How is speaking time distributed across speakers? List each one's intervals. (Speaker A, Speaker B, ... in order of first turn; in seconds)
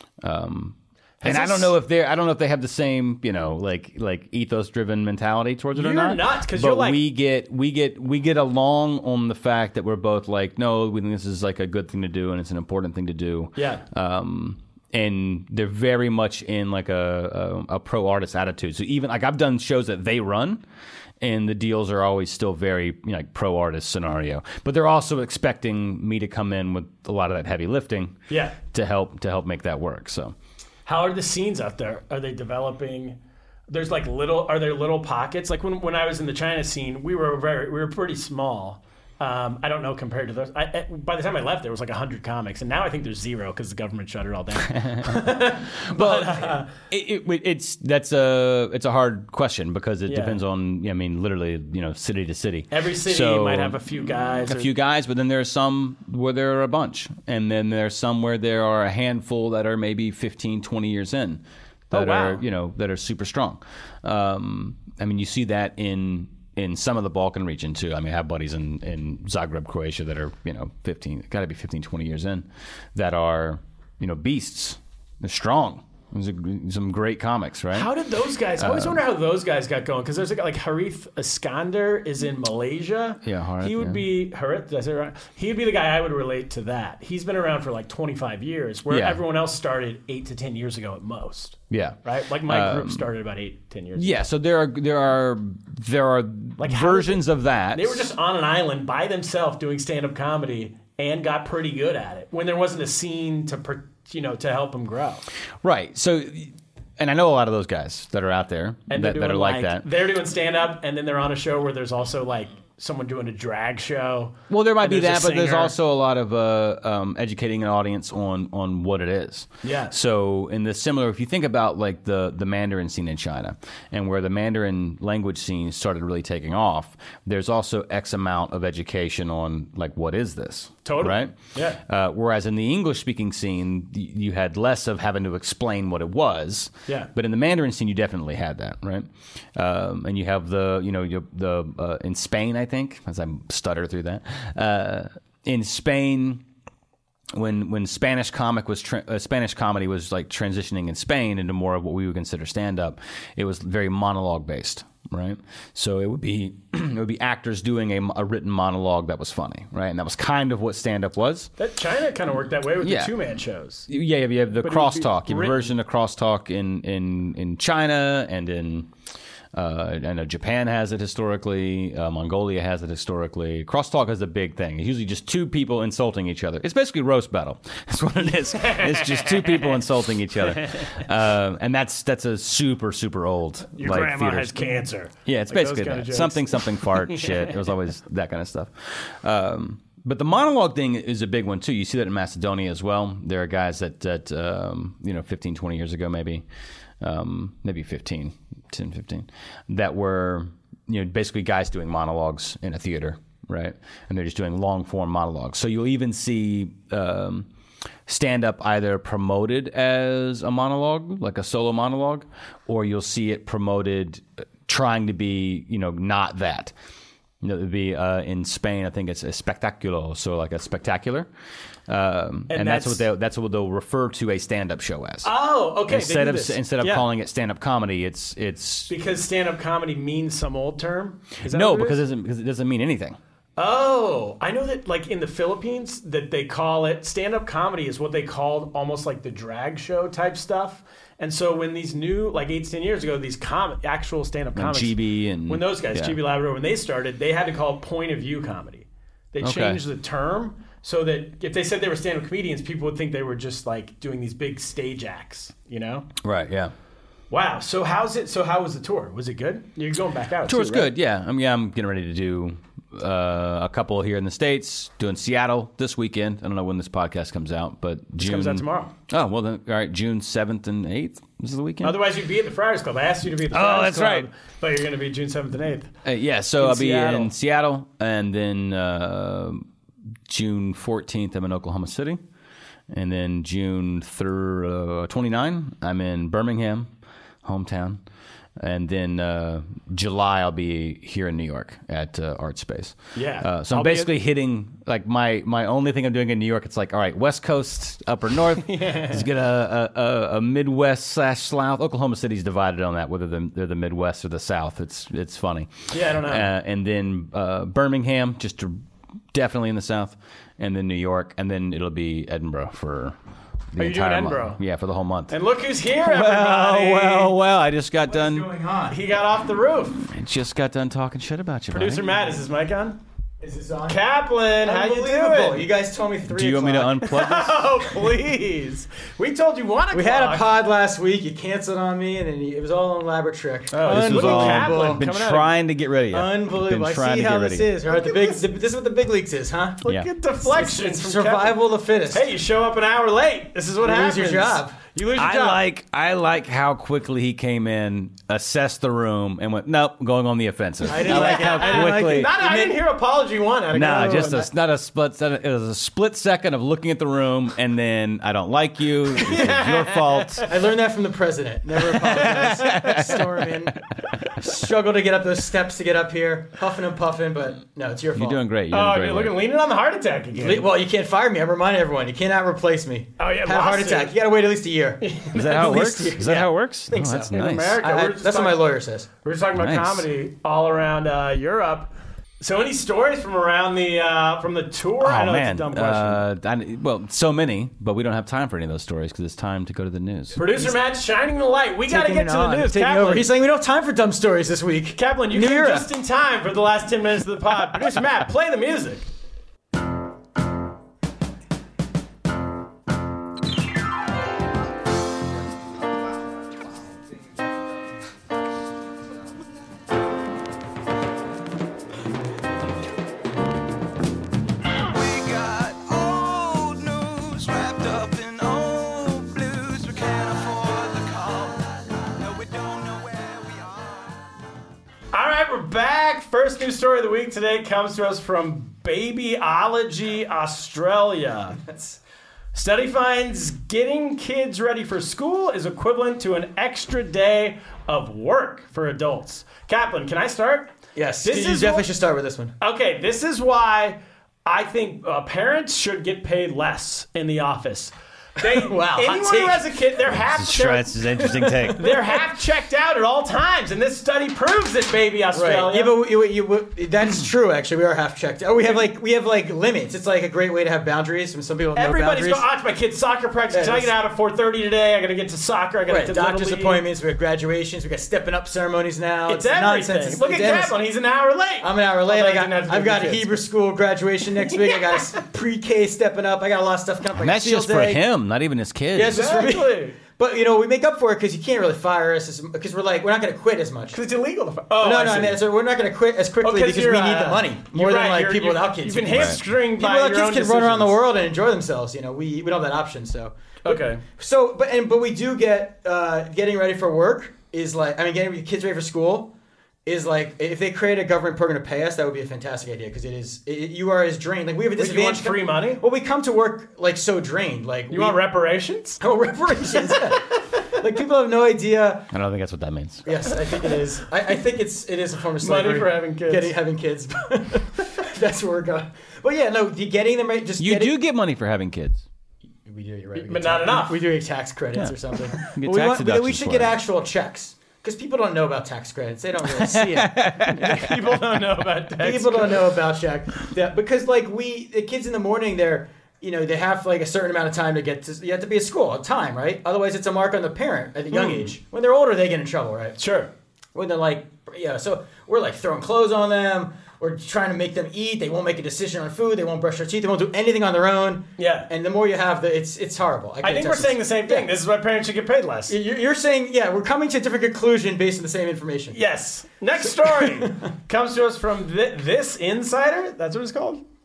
Speaker A: 0.2-20.6, 21.2-28.2, 28.7-30.4, 44.8-45.4, 45.9-53.8, 54.5-77.9, 78.6-79.0, 83.2-84.0, 88.9-89.2, 91.7-93.0, 94.0-98.1, 105.6-109.8, 114.5-146.4, 147.3-161.5, 162.8-163.1, 163.9-168.9, 169.5-196.4, 197.0-207.5, 208.1-216.7, 217.4-221.3, 221.9-225.3, 225.9-228.9, 231.5-233.2, 244.6-246.2, 249.4-249.8, 256.2-256.7, 260.5-272.0, 273.5-274.3, 276.1-279.6, 280.3-282.2, 282.9-286.9, 287.4-288.0, 288.6-305.7, 306.2-308.8, 309.3-313.2, 313.7-315.4, 316.0-318.5, 320.0-322.3, 326.3-327.7, 333.8-337.7, 345.2-352.4, 353.7-360.5, 361.9-363.7, 368.1-369.4, 375.3-377.8, 379.5-380.1, 385.0-390.4, 414.8-424.0, 450.1-451.9, 477.1-479.4, 489.1-489.4, 512.1-513.0, 520.6-522.0, 524.8-526.8, 529.4-531.5
Speaker B: 1.2-1.8, 5.8-7.0, 13.6-13.8, 28.3-28.6, 30.9-33.2, 33.7-46.7, 50.1-50.4, 52.7-54.7, 61.9-62.4, 77.7-94.2, 96.6-105.2, 108.9-115.7, 119.6-120.0, 130.9-131.8, 161.6-163.9, 164.6-165.7, 178.6-179.8, 180.4-180.8, 183.8-187.6, 222.5-223.0, 225.2-227.1, 228.9-232.0, 233.6-256.1, 257.3-260.9, 268.2-268.9, 271.8-275.9, 276.6-277.3, 293.1-294.1, 298.6-299.3, 305.9-306.5, 313.8-314.6, 315.3-317.4, 318.9-320.0, 321.7-323.0, 323.9-325.7, 327.0-330.5, 333.7-335.5, 337.9-338.4, 339.8-341.6, 342.1-345.6, 350.9-354.5, 359.1-360.5, 362.2-363.0, 368.7-370.7, 373.2-374.1, 375.0-375.8, 377.0-378.7, 379.2-386.2, 390.4-393.3, 395.0-399.1, 425.1-431.6, 432.5-441.9, 442.6-451.0, 451.7-455.9, 461.8-466.8, 469.3-473.4, 474.4-475.1, 479.1-480.0, 483.9-485.4, 486.4-491.0, 493.6-494.0, 504.8-505.8, 507.9-509.0, 515.4-516.5, 523.1-524.1, 529.8-532.8, 541.1-541.5, 543.0-543.3, 551.4-551.7, 553.4-555.8, 558.9-563.8
Speaker C: 318.1-319.0, 323.4-324.0, 324.6-327.0, 329.9-335.1, 336.1-339.8, 340.4-342.3, 343.8-344.8, 350.9-352.8, 360.5-363.8, 364.4-368.4, 370.4-379.1, 390.5-390.8, 391.9-395.9, 431.6-432.0, 440.9-442.5, 448.4-449.7, 451.2-452.2, 455.3-462.4, 463.5-463.9, 465.9-470.8, 471.6-478.0, 478.9-484.0, 484.8-499.3, 499.9-508.2, 509.0-512.1, 513.1-520.9, 522.6-530.1, 532.0-543.0, 543.8-554.5, 555.7-559.0, 559.8-560.7